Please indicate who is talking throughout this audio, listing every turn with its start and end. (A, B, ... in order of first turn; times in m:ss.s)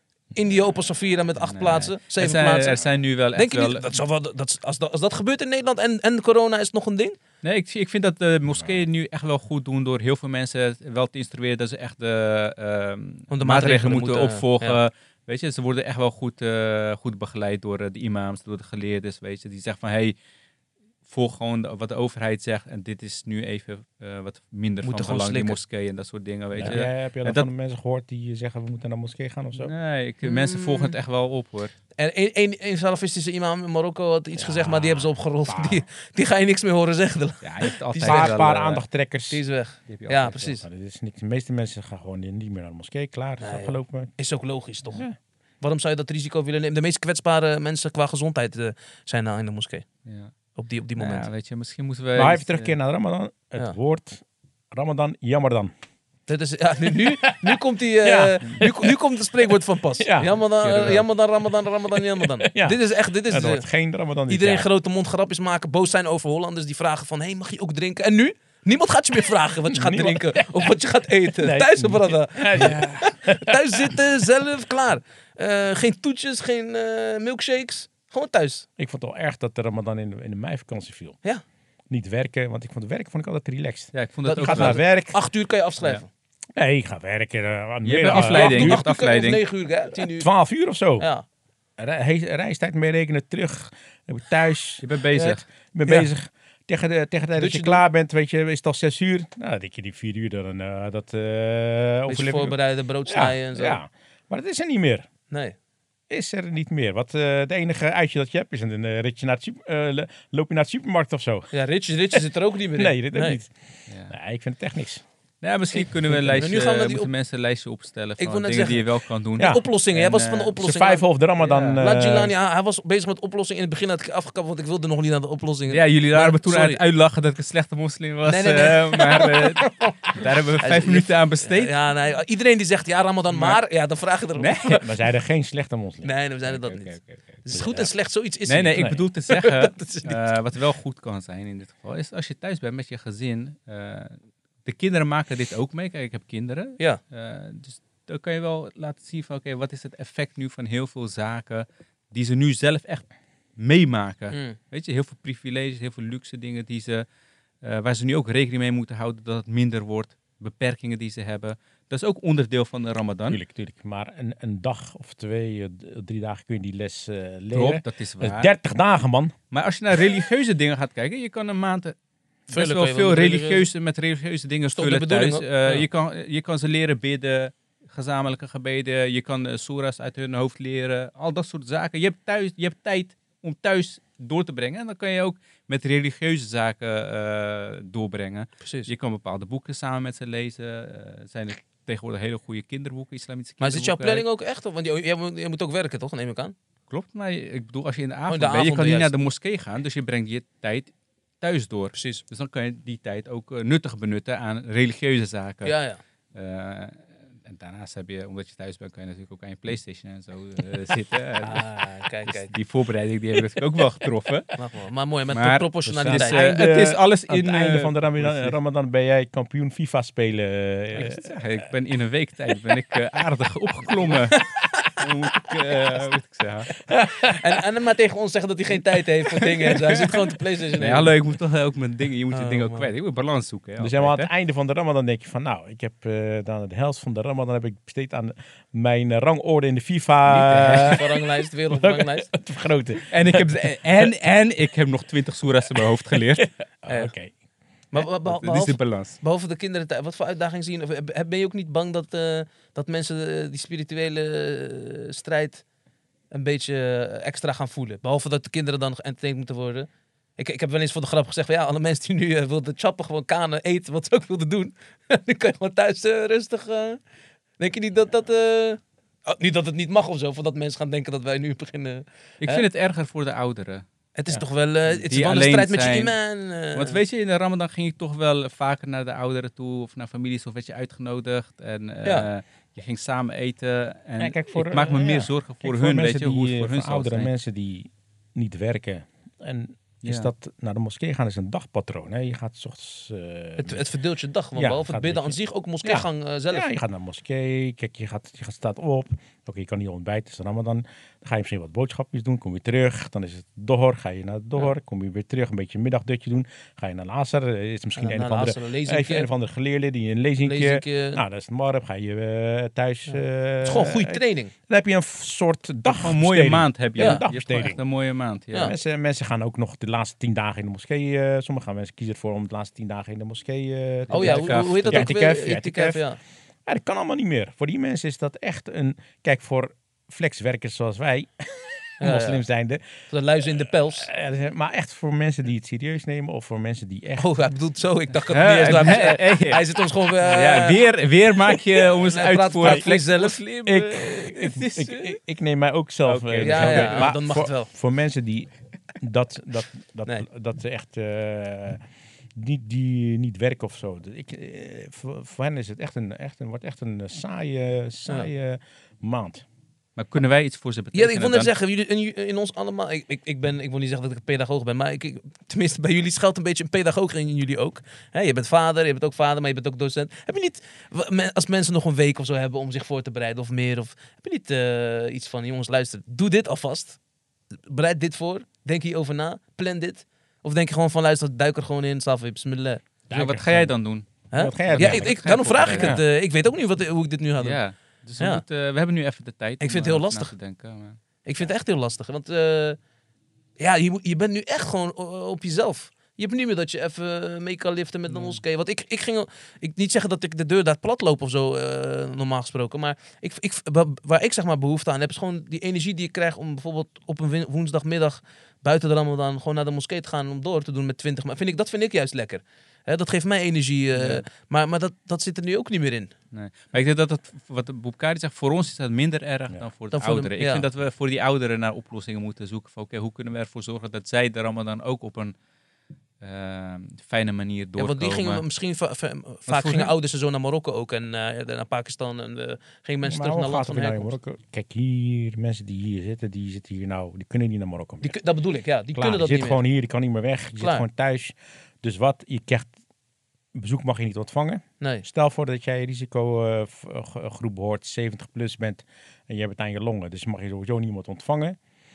0:00.3-0:07.2 A
0:01.4-0:03.9 B
0:07.4-0:20.1 B
0:13.3-0:14.8 A
0:21.0-0:27.5 B
0:24.8-0:25.6 A
0:26.5-0:29.7 C
0:29.6-0:31.7 B
0:30.2-0:30.9 A
0:32.0-0:38.4 A
0:34.3-0:35.8 C
0:37.4-0:38.8 B
0:38.0-0:39.4 C
0:39.3-0:40.6 A
0:39.9-0:40.6 B
0:40.6-0:44.1 C
0:43.4-0:45.0 A
0:45.6-0:49.8 A
0:50.0-0:50.3 B
0:50.5-0:51.3 A
0:50.9-0:52.8 B
0:52.1-0:55.7 C
0:56.3-1:03.7 A
0:57.0-0:58.9 C
1:00.0-1:00.4 C
1:00.6-1:01.1 B
1:02.4-1:04.7 C
1:04.3-1:18.6 A
1:09.7-1:10.7 C
1:11.4-1:13.9 C
1:18.8-1:21.2 C
1:21.9-1:25.2 C
1:23.9-1:24.8 B
1:24.3-1:26.1 A
1:26.6-1:28.8 C
1:27.8-1:29.4 B
1:28.1-1:30.3 A
1:30.1-1:31.1 C
1:31.0-1:31.2 A
1:31.8-1:45.1 C
1:34.8-1:35.4 B
1:37.4-1:37.8 A
1:42.1-1:43.8 A
1:45.3-1:45.5 A
1:46.1-1:51.5 C
1:51.5-1:53.4 A
1:52.7-1:53.5 C
1:53.9-1:54.1 B
1:54.1-1:55.0 C
1:55.4-2:00.6 B
1:55.7-1:57.1 A
1:58.2-2:01.0 A
1:59.4-1:59.6 C
2:00.6-2:02.3 C
2:01.4-2:01.8 B
2:01.7-2:06.8 A
2:05.7-2:11.7 B
2:08.2-2:15.0 A
2:13.3-2:13.6 C
2:14.3-2:14.8 B
2:14.6-2:16.1 C
2:16.0-2:20.3 A
2:16.5-2:17.4 B
2:17.5-2:17.9 C
2:18.5-2:37.0 B
2:18.8-2:19.0 C
2:34.3-2:34.6 A
2:37.6-2:43.4 B
2:43.3-2:49.3 C
2:47.5-2:48.5 B
2:49.5-2:51.9 B
2:52.5-3:14.2 B
2:52.5-2:53.7 A
2:54.7-2:55.9 A
3:08.6-3:08.9 A
3:13.6-3:16.5 A
3:16.9-3:25.8 B
3:18.3-3:19.2 A
3:21.9-3:22.2 A
3:25.6-3:26.0 A
3:26.3-3:31.7 B
3:31.4-3:32.5 A
3:32.2-3:34.6 B
3:34.6-3:36.5 A
3:35.3-3:38.6 B
3:35.8-3:41.3 C
3:40.9-3:44.4 B
3:45.0-3:46.8 B
3:46.9-3:47.4 C
3:47.4-3:51.2 A
3:49.3-3:54.3 B
3:52.3-3:52.9 A
3:53.8-4:04.0 C
4:00.3-4:01.0 B
4:00.5-4:02.3 A
4:03.0-4:06.5 B
4:06.8-4:07.3 C
4:06.9-4:07.1 A
4:07.9-4:15.6 A
4:07.9-4:09.2 B
4:16.3-4:27.0 A
4:27.6-4:32.6 A
4:32.4-4:33.8 B
4:34.2-4:37.0 A
4:34.9-4:36.2 B
4:36.7-4:47.3 B
4:42.0-4:42.3 A
4:44.2-4:53.8 C
4:50.0-4:50.3 B
4:53.6-4:56.7 A
4:54.5-5:17.8 C
5:08.0-5:09.3 A
5:10.4-5:11.2 A
5:13.1-5:14.5 A
5:15.9-5:18.8 B
5:17.0-5:17.2 A
5:18.6-5:26.0 C
5:24.1-5:25.2 B
5:24.1-5:26.2 A
5:26.6-5:32.9 C
5:32.0-5:32.4 A
5:33.1-5:34.1 A
5:33.6-5:37.3 C
5:37.2-5:40.9 A
5:38.3-5:44.8 B
5:41.5-5:43.4 A
5:42.6-5:42.9 C
5:43.6-5:51.8 C
5:44.2-5:45.2 A
5:46.0-5:47.1 B
5:46.4-5:47.7 A
5:52.4-5:59.4 C
6:00.0-6:01.5 B
6:00.9-6:17.0 A
6:17.7-6:22.8 A
6:23.1-6:23.8 C
6:23.1-6:26.0 B
6:24.3-6:27.6 A
6:24.3-6:26.0 C
6:27.4-6:31.0 B
6:28.2-6:28.4 A
6:29.6-6:30.3 A
6:31.2-6:32.8 A
6:33.6-6:56.1 A
6:54.0-6:54.2 B
6:56.3-7:05.3 B
6:59.9-7:00.7 A
7:06.2-7:08.4 B
7:07.8-7:14.2 A
7:09.5-7:09.9 B
7:13.0-7:18.2 C
7:18.0-7:19.6 A
7:18.9-7:22.7 C
7:20.6-7:20.9 A
7:23.5-7:31.6 C